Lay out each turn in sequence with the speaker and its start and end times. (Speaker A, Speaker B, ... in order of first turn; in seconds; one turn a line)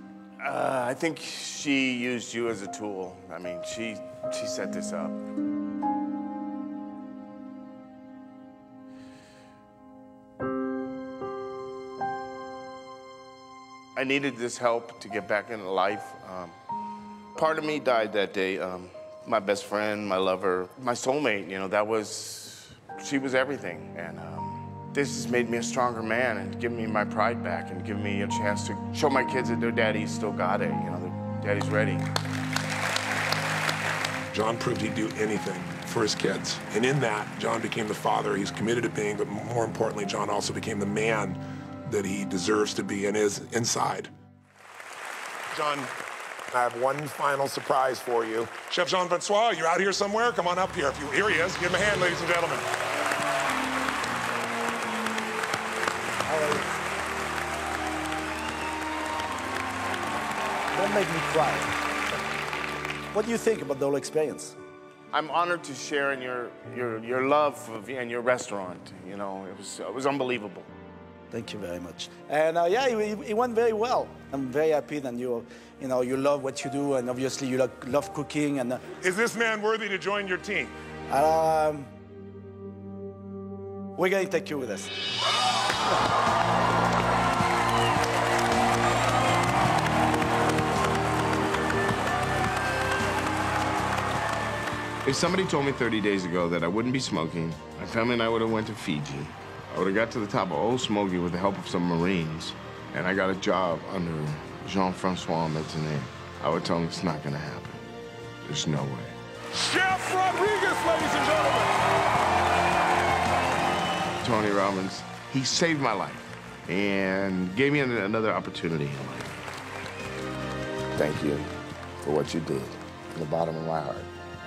Speaker A: 0.4-5.2
Speaker A: 14.0-16.6
Speaker A: 17.4-32.1
Speaker B: 34.3-44.1
Speaker B: 45.5-45.9
Speaker B: 46.5-52.7
Speaker C: 56.3-56.8
Speaker C: 60.7-61.7
Speaker C: 63.1-64.6
Speaker A: 65.1-70.7
Speaker C: 71.3-78.8
Speaker B: 79.0-80.7
Speaker C: 81.1-81.9
Speaker C: 84.0-84.9
Speaker A: 95.0-107.9
Speaker A: 108.4-109.2
Speaker B: 109.5-111.8
Speaker A: 114.2-119.4
Speaker A: 121.0-121.5
Speaker A: 122.0-124.1